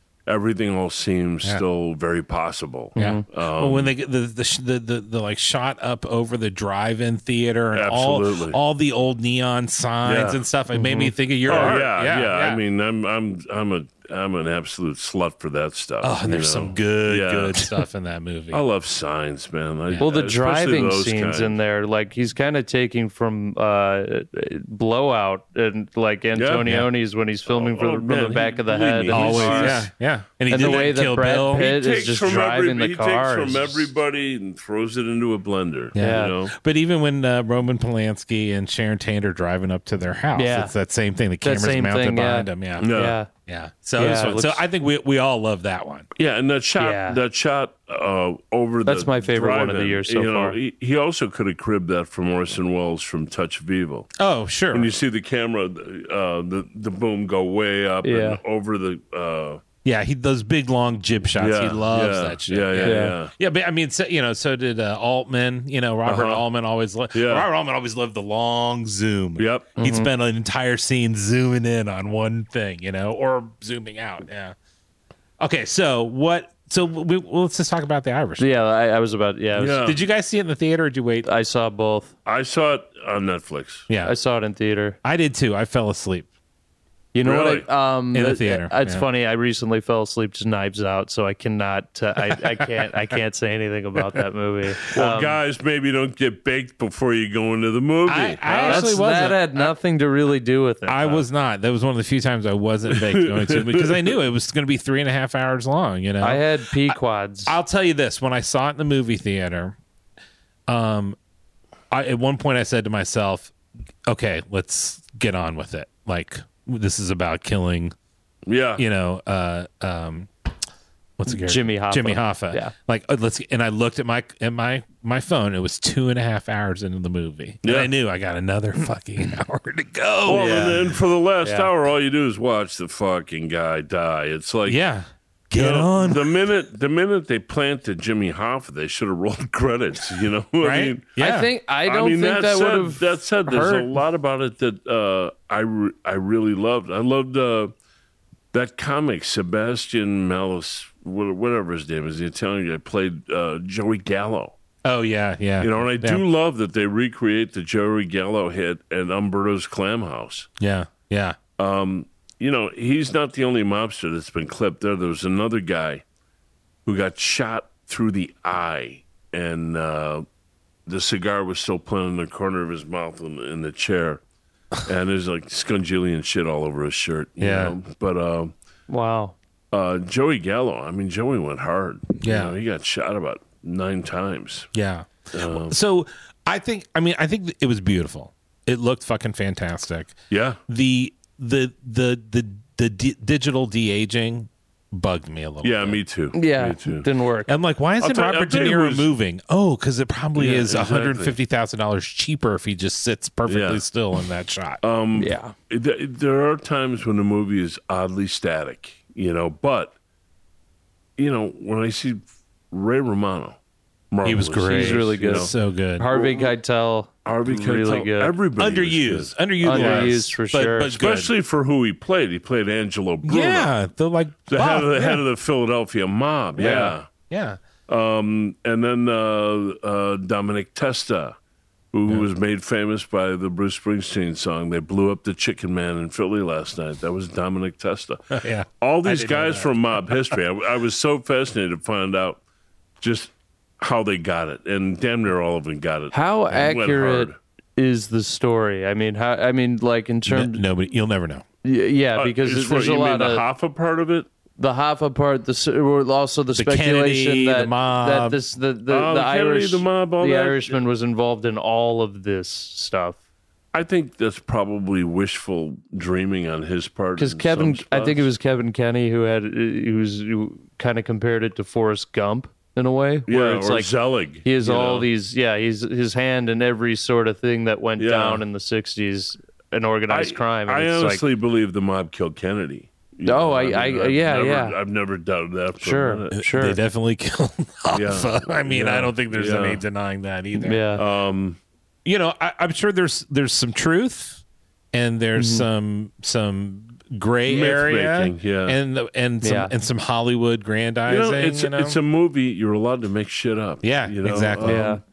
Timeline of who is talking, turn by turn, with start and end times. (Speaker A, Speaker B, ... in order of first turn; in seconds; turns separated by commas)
Speaker A: 0.3-3.9, Speaker B: 3.0-3.2, Speaker C: 3.0-12.6, Speaker A: 7.7-8.6, Speaker A: 10.0-10.4, Speaker B: 10.7-11.8, Speaker A: 11.4-17.8, Speaker C: 16.0-18.6, Speaker A: 18.5-21.6, Speaker B: 20.0-29.9, Speaker A: 26.3-26.7, Speaker A: 27.5-29.9, Speaker C: 29.1-31.7, Speaker B: 30.5-33.9, Speaker A: 30.5-36.5, Speaker C: 35.9-46.1, Speaker B: 36.0-36.3, Speaker B: 40.4-40.7, Speaker B: 41.4-43.3, Speaker A: 42.8-43.2, Speaker B: 44.0-44.6, Speaker A: 46.1-54.1, Speaker B: 46.8-47.2, Speaker B: 48.9-50.6, Speaker C: 54.2-54.9, Speaker A: 54.7-59.6, Speaker B: 58.0-58.4, Speaker C: 59.8-74.5, Speaker A: 61.4-63.3, Speaker B: 62.8-63.1, Speaker A: 66.0-66.4, Speaker A: 67.1-67.5, Speaker A: 69.4-69.7, Speaker B: 69.8-70.1, Speaker C: 75.4-78.5, Speaker B: 78.4-79.9, Speaker A: 79.6-80.0, Speaker C: 79.8-81.3, Speaker B: 81.2-82.1, Speaker A: 82.2-83.9, Speaker C: 83.9-84.1, Speaker B: 84.0-85.0, Speaker C: 85.0-86.3, Speaker B: 87.1-95.4, Speaker A: 87.2-87.7, Speaker C: 88.1-89.0, Speaker A: 94.9-98.9, Speaker C: 98.1-99.7, Speaker B: 98.5-101.2, Speaker C: 100.9-109.8, Speaker A: 102.9-104.1, Speaker B: 106.2-107.5, Speaker C: 110.7-111.2, Speaker C: 111.9-113.5, Speaker C: 114.1-117.9, Speaker A: 118.5-118.8, Speaker C: 118.8-120.3, Speaker C: 121.2-130.9, Speaker B: 121.3-122.7, Speaker A: 127.6-127.9, Speaker A: 130.3-134.8, Speaker B: 130.3-130.8, Speaker B: 131.4-131.7, Speaker C: 134.7-136.4, Speaker A: 135.5-141.1, Speaker C: 140.6-141.5, Speaker B: 141.2-143.8, Speaker A: 141.8-147.7, Speaker C: 143.5-143.8, Speaker A: 148.5-154.6, Speaker C: 154.8-156.2, Speaker A: 155.6-160.5, Speaker C: 160.6-161.4, Speaker A: 161.6-166.0, Speaker A: 166.8-170.2, Speaker A: 170.9-174.2, Speaker A: 174.8-178.5, Speaker C: 177.4-177.8, Speaker B: 178.9-179.3, Speaker A: 179.7-184.7, Speaker C: 182.2-182.5, Speaker C: 184.7-190.2, Speaker A: 185.3-185.8, Speaker A: 190.3-190.6, Speaker C: 190.7-196.0, Speaker A: 195.6-197.1, Speaker B: 196.3-197.5, Speaker C: 197.5-204.8, Speaker A: 198.0-199.1, Speaker A: 200.3-201.4, Speaker A: 203.4-203.8, Speaker A: 204.8-209.9, Speaker B: 205.2-205.5, Speaker A: 211.2-213.6, Speaker A: 214.1-215.5, Speaker C: 214.2-216.1, Speaker B: 214.7-218.3, Speaker A: 216.1-216.5, Speaker A: 217.2-220.1, Speaker C: 218.6-221.3, Speaker B: 219.6-220.9, Speaker A: 220.9-223.7, Speaker C: 223.2-225.2, Speaker A: 224.5-227.1, Speaker B: 226.6-226.9, Speaker C: 227.3-227.6, Speaker A: 227.9-231.3, Speaker A: 231.9-242.4, Speaker C: 238.3-240.4, Speaker A: 243.0-247.3, Speaker B: 246.1-250.6, Speaker C: 250.3-251.4, Speaker B: 251.6-253.4, Speaker A: 252.2-254.3, Speaker B: 254.6-263.2, Speaker C: 256.5-258.4, Speaker A: 258.9-260.8, Speaker A: 263.7-268.3, Speaker B: 267.2-273.9, Speaker A: 273.3-275.1, Speaker B: 274.4-281.2, Speaker A: 278.0-278.4, Speaker A: 280.1-286.4, Speaker B: 283.2-284.8, Speaker B: 285.8-286.8, Speaker C: 286.4-290.8, Speaker A: 287.9-289.8, Speaker B: 290.5-291.0, Speaker A: 290.9-291.6, Speaker C: 292.0-294.4, Speaker C: 294.9-302.0, Speaker B: 295.4-295.6, Speaker A: 297.5-298.8, Speaker B: 299.4-299.7, Speaker A: 301.1-304.9, Speaker C: 303.8-305.0, Speaker B: 304.6-305.0